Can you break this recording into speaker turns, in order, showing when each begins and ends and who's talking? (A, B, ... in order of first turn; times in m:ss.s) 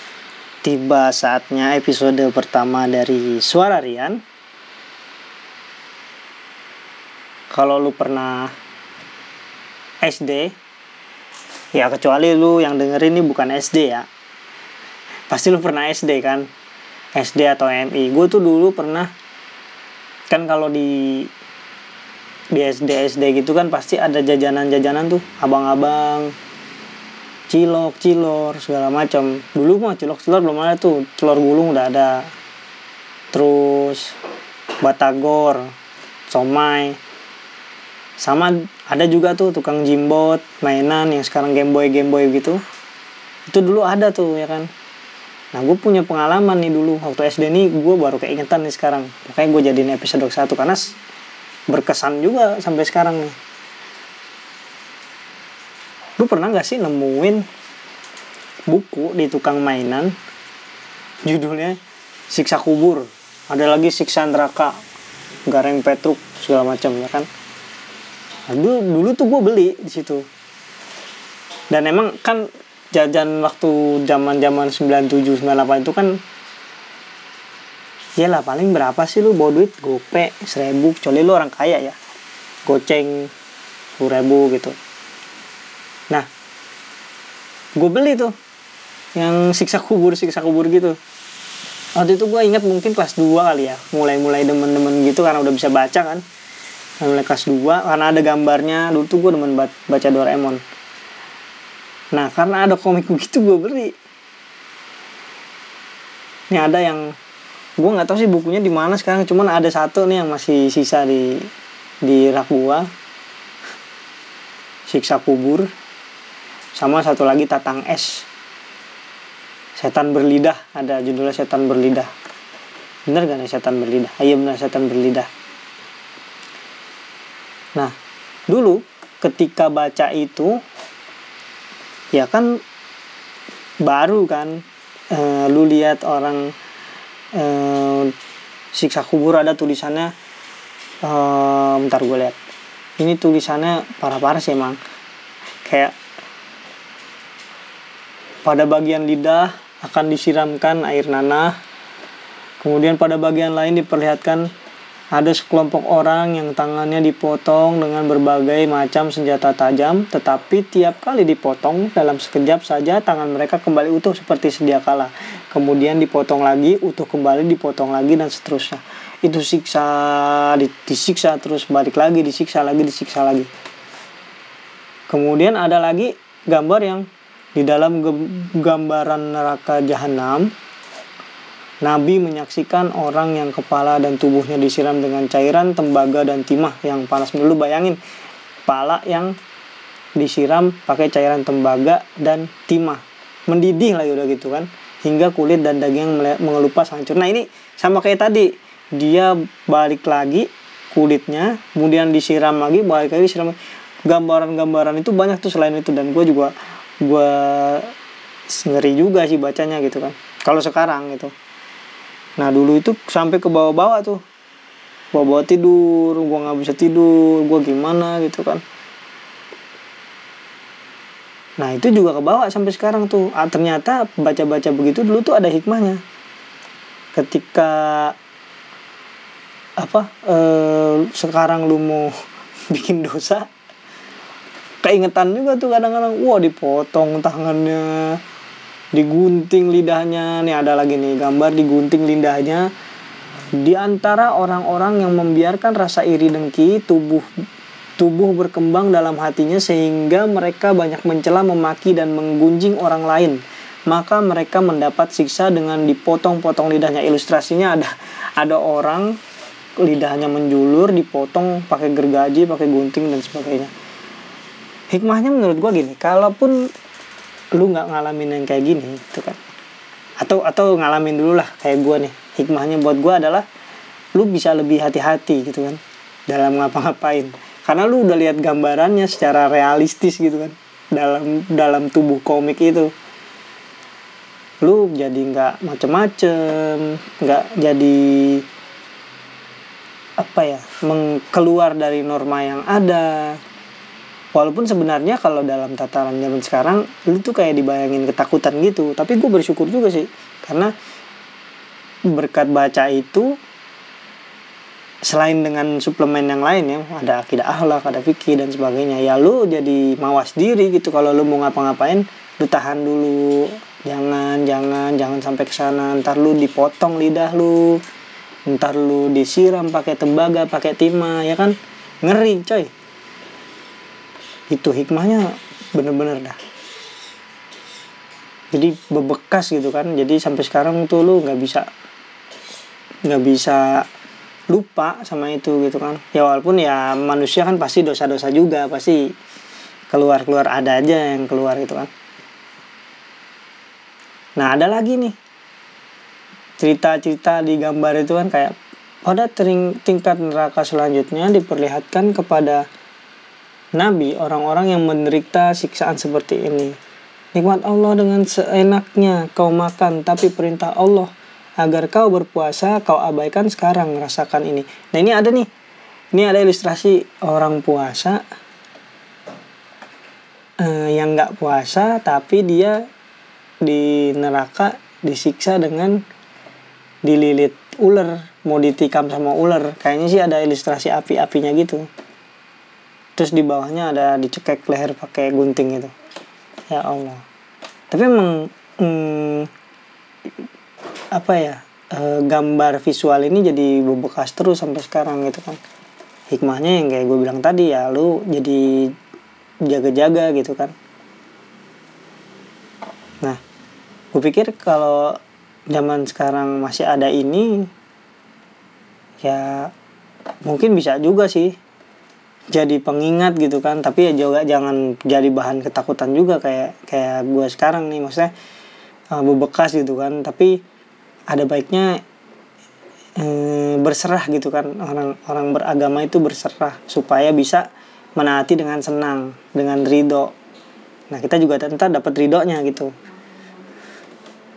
0:00.6-0:04.2 A
0:07.5-0:08.5 A
0:10.0-0:10.5 A
0:11.7-0:14.1 A
0:15.3-0:16.5 A
0:17.1-0:19.1 A
0:20.3-0:21.3 A
0:22.5-0:26.3 A
0:27.5-0:32.3 A
0:33.3-0:34.2 A
0:34.8-0:35.7 A
0:36.3-0:37.0 A
0:38.2-0:42.6 A
0:43.5-0:44.7 A
0:45.5-0:50.9 A
0:51.7-0:53.3 A
0:56.2-0:57.4 A
0:58.7-1:00.1 A
1:01.2-1:01.8 A
1:02.3-1:04.8 A
1:05.5-1:07.3 A
1:08.5-1:10.2 A
1:11.7-1:16.2 A
1:18.2-1:22.0 A
1:22.6-1:23.3 A
1:24.0-1:24.7 A
1:27.8-1:28.3 A
1:29.1-1:31.0 A
1:32.0-1:36.2 A
1:37.0-1:40.6 A
1:42.1-1:43.9 A
1:46.5-1:47.1 A
1:47.8-1:51.5 A
1:52.0-1:52.9 A
1:54.9-1:55.7 A
1:56.7-1:58.3 A
1:59.8-2:02.1 A
2:03.1-2:05.3 A
2:08.5-2:10.6 A
2:12.1-2:12.6 A
2:13.8-2:16.5 A
2:17.3-2:18.1 A
2:18.7-2:20.1 A
2:21.0-2:22.4 A
2:23.0-2:24.8 A
2:25.6-2:26.0 A
2:28.4-2:31.6 A
2:32.6-2:34.5 A
2:35.1-2:53.5 A
2:55.1-3:00.5 A
3:01.8-3:08.0 A
3:08.6-3:09.3 A
3:10.2-3:27.9 A
3:28.5-3:31.3 A
3:32.4-3:34.2 A
3:35.1-3:38.6 A
3:41.6-3:46.0 A
3:47.1-3:48.1 A
3:49.8-3:52.1 A
3:52.7-3:53.5 A
3:54.8-3:58.2 A
3:58.9-4:02.7 A
4:03.5-4:07.3 A
4:08.0-4:19.2 A
4:19.8-4:23.7 A
4:24.9-4:26.7 A
4:27.5-4:29.4 A
4:30.2-4:33.4 A
4:34.1-4:42.9 A
4:44.6-4:48.4 A
4:50.2-4:53.4 A
4:54.3-5:00.7 A
5:02.1-5:03.4 A
5:05.0-5:17.8 A
5:18.5-5:22.7 A
5:24.5-5:26.4 A
5:28.5-5:31.7 A
5:33.0-5:33.8 A
5:34.5-5:39.1 A
5:39.9-5:41.9 A
5:44.4-5:45.2 A
5:46.6-5:52.6 A
5:53.7-5:56.8 A
5:57.3-6:05.5 A
6:06.1-6:08.2 A
6:10.6-6:12.8 A
6:13.6-6:16.0 A
6:17.0-6:21.9 A
6:23.2-6:25.9 A
6:26.7-6:27.2 A
6:27.9-6:29.5 A
6:31.1-6:35.6 A
6:36.3-6:39.0 A
6:39.6-6:40.7 A
6:44.1-6:45.2 A
6:45.7-6:47.7 A
6:49.2-6:49.7 A
6:50.4-6:51.6 A
6:52.5-6:58.3 A
6:59.1-7:00.6 A
7:01.3-7:02.0 A
7:03.2-7:10.3 A
7:11.1-7:12.9 A